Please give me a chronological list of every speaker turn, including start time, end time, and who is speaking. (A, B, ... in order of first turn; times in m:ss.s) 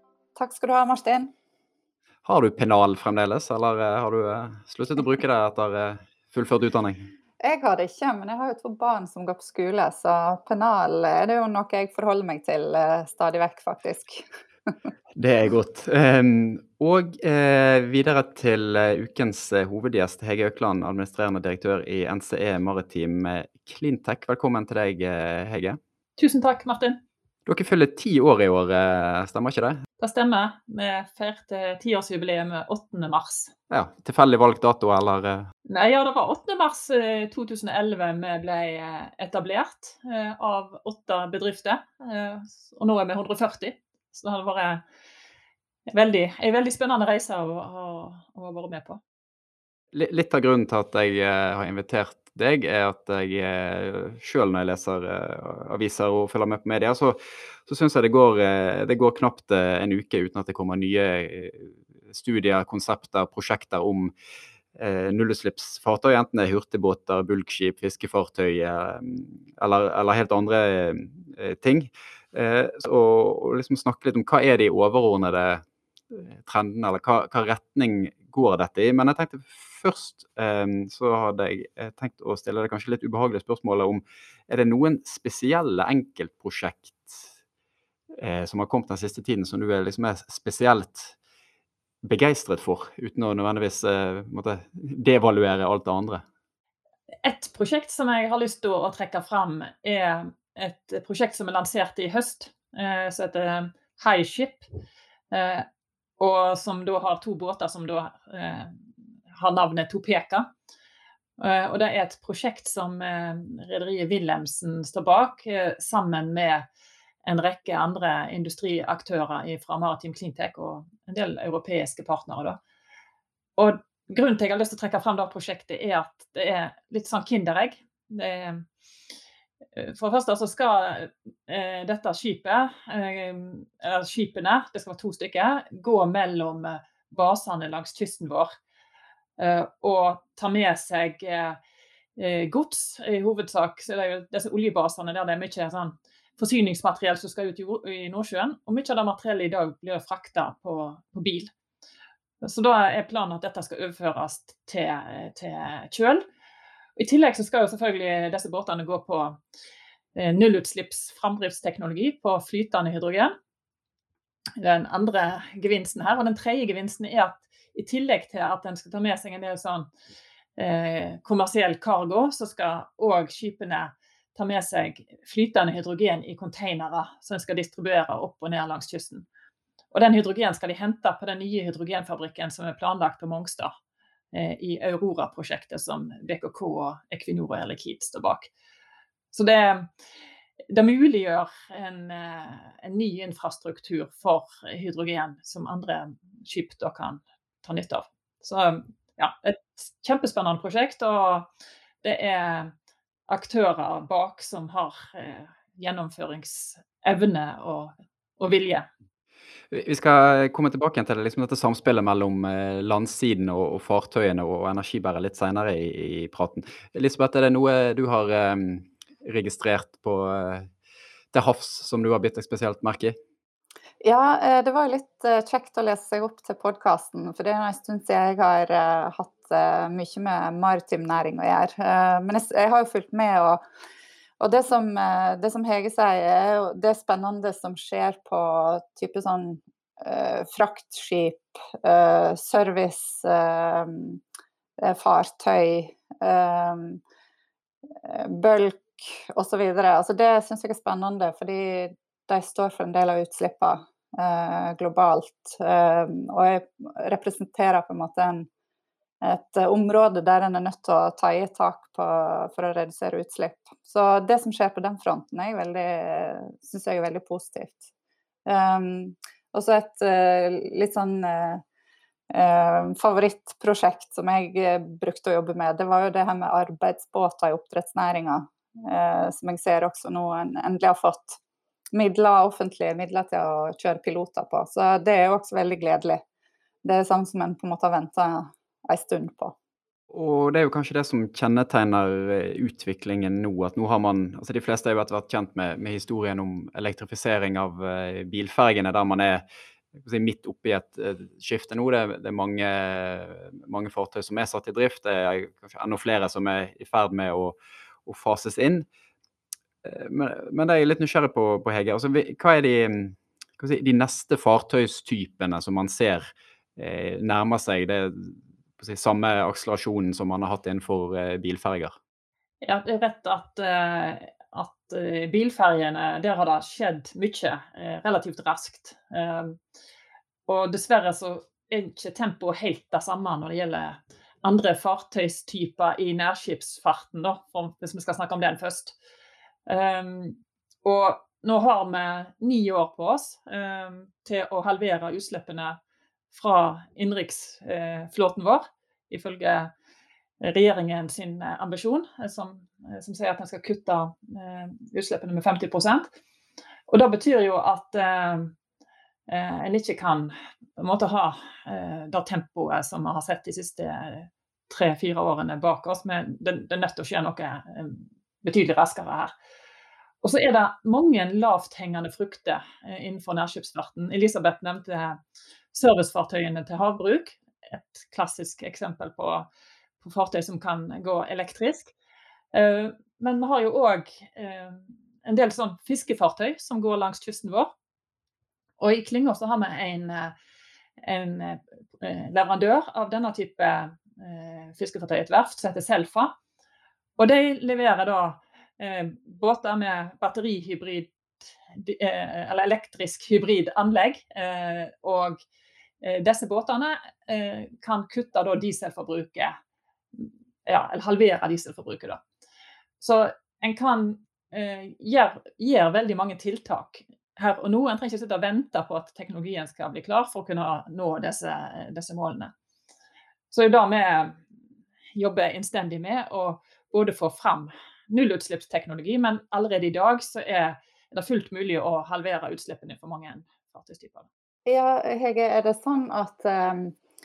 0:00.4-0:01.3 A
0:02.2-0:07.1 B
0:07.4-0:14.7 A
0:15.2-0:25.8 B
0:26.2-0:27.0 C
0:27.4-0:29.8 B
0:30.0-0:33.5 C
0:33.7-0:35.5 B
0:35.7-0:44.8 C
0:45.9-0:49.0 C
0:49.9-1:04.1 B
1:04.8-1:27.3 B
1:28.2-1:31.1 B
1:32.0-1:36.2 B
1:37.2-1:44.7 C
1:45.3-1:45.6 C
1:46.2-1:48.8 C
1:49.4-1:50.5 C
1:51.4-1:56.6 C
1:57.2-2:02.6 C
2:03.6-2:08.6 C
2:09.8-2:18.6 C
2:19.4-2:21.6 C
2:22.2-2:31.5 C
2:32.4-2:36.2 C
2:37.0-2:39.4 C
2:40.1-2:43.3 C
2:44.6-2:49.9 C
2:50.6-2:59.2 C
2:59.9-3:03.7 C
3:04.3-3:08.5 C
3:09.3-3:09.9 C
3:10.7-3:21.5 C
3:22.0-3:22.7 C
3:23.3-3:28.9 C
3:29.7-3:40.7 B
3:41.3-3:43.1 B
3:44.0-3:53.6 A
3:54.4-4:04.2 A
4:04.8-4:07.0 A
4:07.9-4:18.5 A
4:19.2-4:27.9 A
4:28.4-4:31.6 A
4:32.3-4:41.4 A
4:41.9-4:46.2 A
4:46.8-4:49.6 A
4:50.1-4:59.4 B
5:00.0-5:08.8 B
5:09.8-5:22.0 B
5:22.6-5:29.6 C
5:30.4-5:39.0 C
5:39.7-5:45.8 C
5:46.3-5:49.7 C
5:50.4-5:56.1 C
5:56.9-5:58.5 C
5:59.3-6:09.3 C
6:10.2-6:15.2 C
6:15.7-6:19.5 C
6:20.0-6:21.9 C
6:22.5-6:27.7 C
6:28.8-6:30.3 C
6:31.0-6:36.3 C
6:37.2-6:41.1 C
6:41.7-6:45.4 C
6:46.0-6:49.6 C
6:50.1-6:52.2 C
6:53.0-7:02.5 C
7:03.5-7:04.4 C
7:05.2-7:14.3 C
7:14.6-7:16.9 A